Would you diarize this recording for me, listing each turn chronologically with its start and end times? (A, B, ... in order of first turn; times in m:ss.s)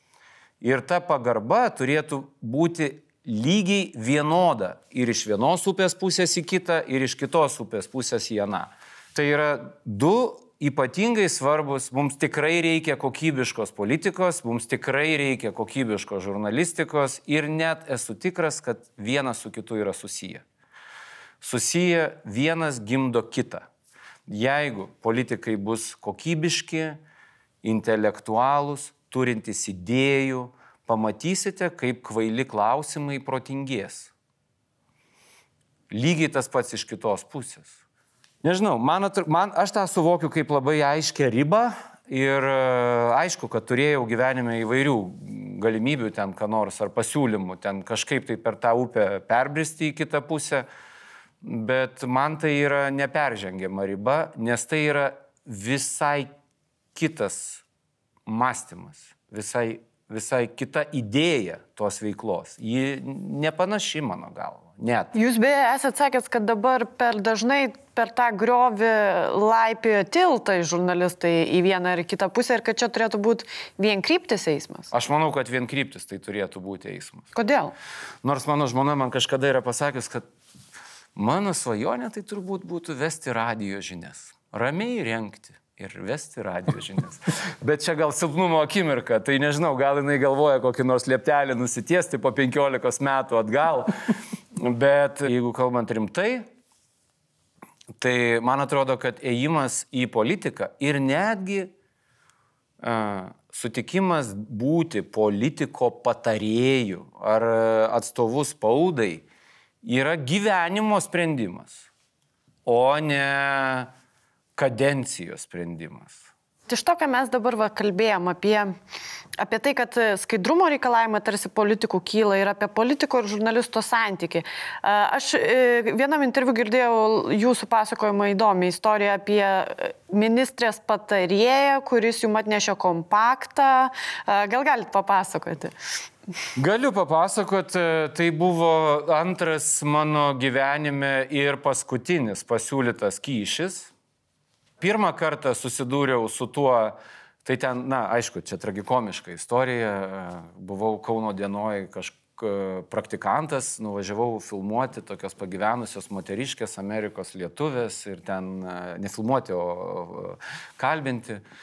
0:00.6-0:20.4 A
0:21.4-0:23.6 A
0:24.3-0:27.0 A
0:27.6-0:34.1 A
0:35.9-0:37.8 A
0:38.4-0:50.6 A
0:51.4-0:56.3 A
0:56.9-0:57.6 A
0:58.2-1:05.1 A
1:05.1-1:14.9 B
1:14.9-1:17.2 A
1:17.3-1:17.7 B
1:18.2-1:20.2 A
1:21.2-1:33.9 A
1:34.5-1:36.4 A
1:38.0-1:41.7 A
1:42.8-1:49.2 A
1:49.8-1:51.9 A
1:52.6-1:53.9 A
1:54.6-1:56.2 A
1:56.7-1:58.7 B
1:59.4-2:15.7 B
2:16.6-2:23.9 A
2:24.8-2:41.4 A